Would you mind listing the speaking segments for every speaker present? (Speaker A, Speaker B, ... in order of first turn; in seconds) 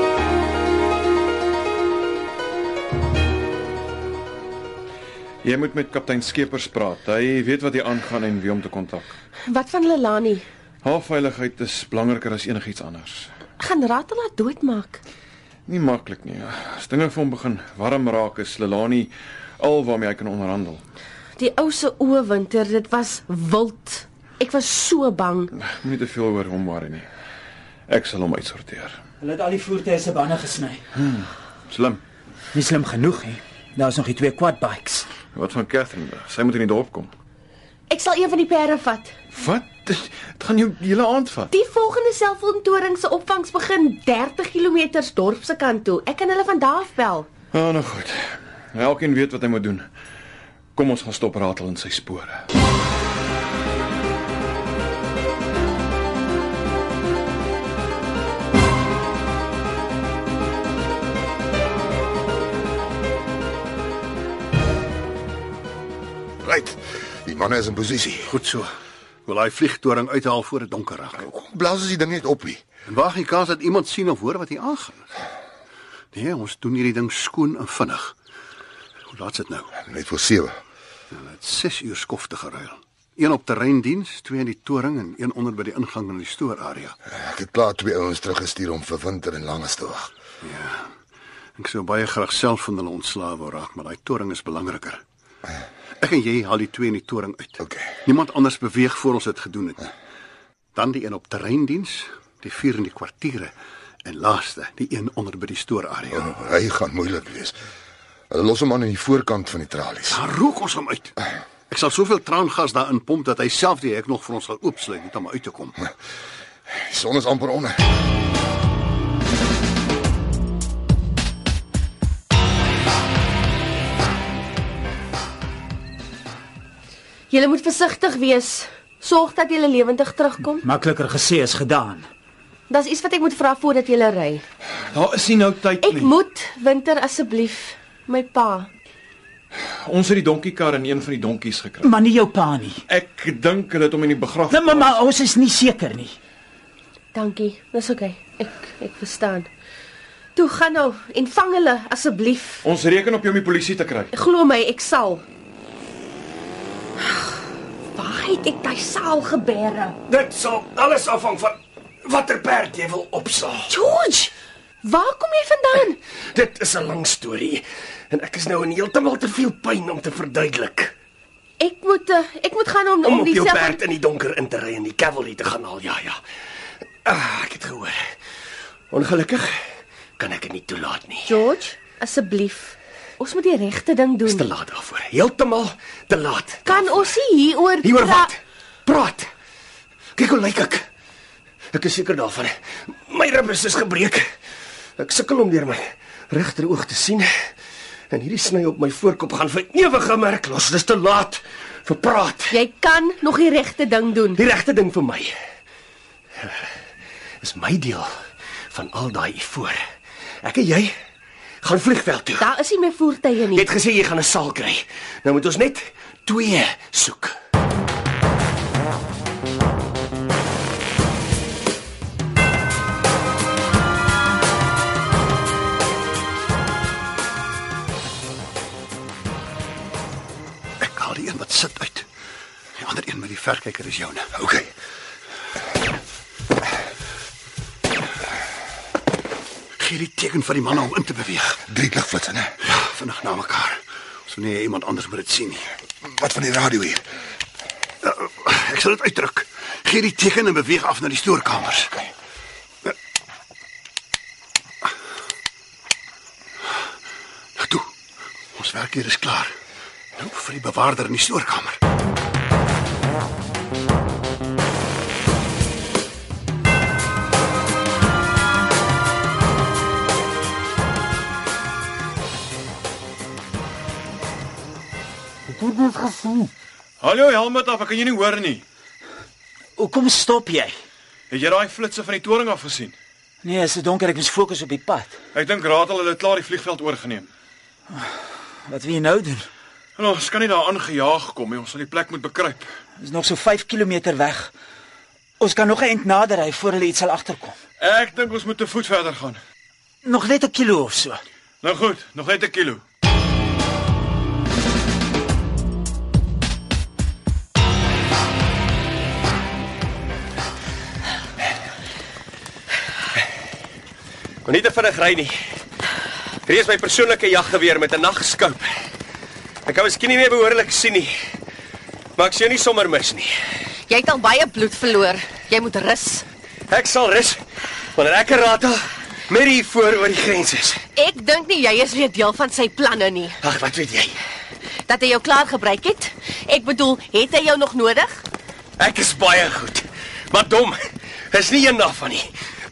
Speaker A: 5.4-9.2, 10.8-13.3, 15.7-20.8, 25.5-27.1, 27.9-29.0, 30.9-32.0, 35.3-37.1, 39.3-41.5, 47.5-49.9, 50.8-52.4, 134.9-136.1, 139.8-141.9, 142.9-145.0, 152.6-154.1, 277.0-278.6, 281.3-282.9, 285.3-287.3, 290.0-292.7, 297.8-299.4, 301.6-302.8
Speaker B: 9.5-10.5, 13.6-15.0, 21.4-25.5, 37.9-39.1, 41.5-47.3, 127.3-130.7, 132.7-134.4, 135.8-138.7, 147.1-149.5, 150.3-152.6, 154.1-155.2, 157.0-157.3, 157.9-160.0, 163.7-166.0, 171.6-173.8, 181.2-184.4, 186.7-188.3, 202.5-204.4, 212.4-213.7, 323.9-326.2, 330.9-333.4, 334.9-338.2
Speaker C: 29.2-30.8, 32.5-35.1, 130.6-132.1, 141.8-142.8, 144.5-146.1, 275.5-276.5, 279.8-280.8, 283.4-285.2, 288.6-289.5, 293.0-294.5, 295.4-297.6, 300.0-301.2
Speaker D: 66.4-68.3, 71.2-72.6, 79.9-80.6, 87.1-90.1, 97.6-97.9, 106.1-107.6, 108.3-110.2, 116.8-117.8, 234.4-234.7, 241.7-242.5, 246.0-247.0
Speaker E: 68.2-68.7, 69.2-71.2, 72.9-75.0, 76.1-78.1, 79.1-79.8, 81.1-87.0, 90.4-90.9, 91.6-95.0, 96.0-99.9, 100.8-103.5, 104.0-106.3, 110.1-111.1, 111.7-115.8, 230.8-232.1, 232.8-234.3, 239.8-241.6, 242.6-245.7, 248.0-252.0, 257.6-257.9, 258.5-259.5, 260.2-261.8
Speaker F: 160.1-163.7, 166.3-170.9, 173.0-176.2, 177.1-178.0, 178.9-179.6, 180.2-181.4, 184.2-187.2, 187.8-189.3, 190.2-190.8, 191.7-194.3, 195.0-197.3, 198.1-202.6, 204.3-205.3, 207.4-208.1, 208.7-209.8, 210.4-210.9, 211.6-212.5, 213.5-217.3, 314.4-315.4, 316.4-318.7, 319.6-321.1, 322.2-323.3, 326.7-327.4, 327.9-330.8, 333.4-334.2, 338.8-342.3